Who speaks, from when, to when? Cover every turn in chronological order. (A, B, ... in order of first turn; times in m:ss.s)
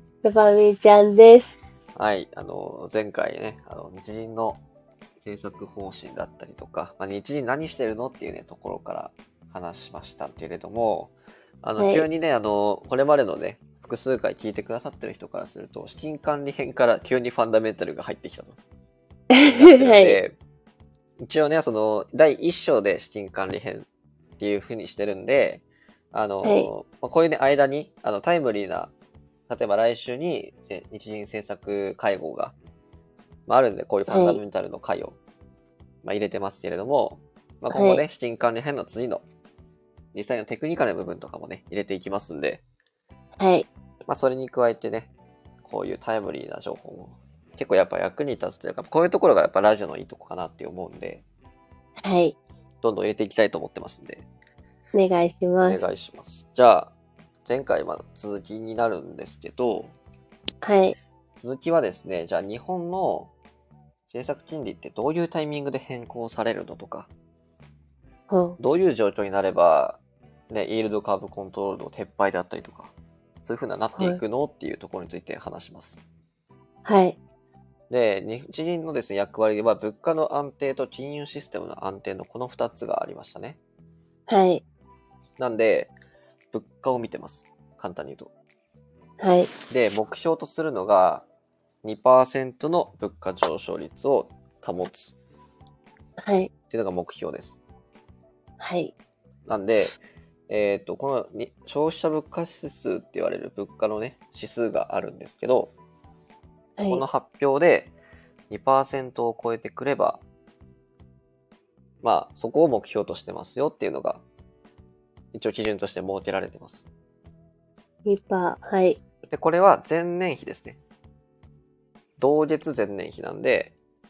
0:00.2-0:01.5 A
0:02.0-0:04.6 B
0:05.2-0:18.6 B
0:11.8-0:12.0 A
0:19.3-0:20.2 A
0:19.4-0:20.4 B
0:21.2-0:23.9 B
0:24.4-0:28.9 B
0:26.4-0:26.7 A
0:29.5-0:32.6 B
0:33.5-0:35.2 B
0:34.1-0:34.4 A
0:36.0-0:39.2 B
0:37.7-0:38.0 A
0:40.1-0:42.6 B
0:43.4-0:43.7 A
0:44.1-0:45.1 B
0:45.6-0:51.2 B
0:52.0-0:52.4 A
0:52.8-0:54.3 B
0:54.9-0:55.8 A
0:55.6-0:56.9 B
0:57.4-1:00.0 B
1:00.6-1:01.0 A
1:01.4-1:03.3 B
1:04.1-1:07.1 B
1:08.3-1:08.6 A
1:08.6-1:10.0 B
1:10.5-1:12.9 B
1:13.4-1:16.0 B
1:16.8-1:17.2 A
1:17.9-1:23.6 B
1:24.3-1:24.6 A
1:25.4-1:25.9 B
1:26.5-1:28.3 B
1:29.2-1:29.5 A
1:29.7-1:31.2 B
1:31.8-1:35.2 B
1:36.2-1:36.5 A
1:36.7-1:37.6 B
1:38.6-1:38.9 A
1:39.5-1:40.0 B
1:40.5-1:45.7 B
1:46.8-1:47.0 A
1:46.9-1:47.9 B
1:48.5-1:50.2 B
1:52.0-1:54.2 B
1:55.3-1:56.8 B
1:58.0-1:59.0 A
1:59.3-2:00.8 B
2:02.2-2:03.7 B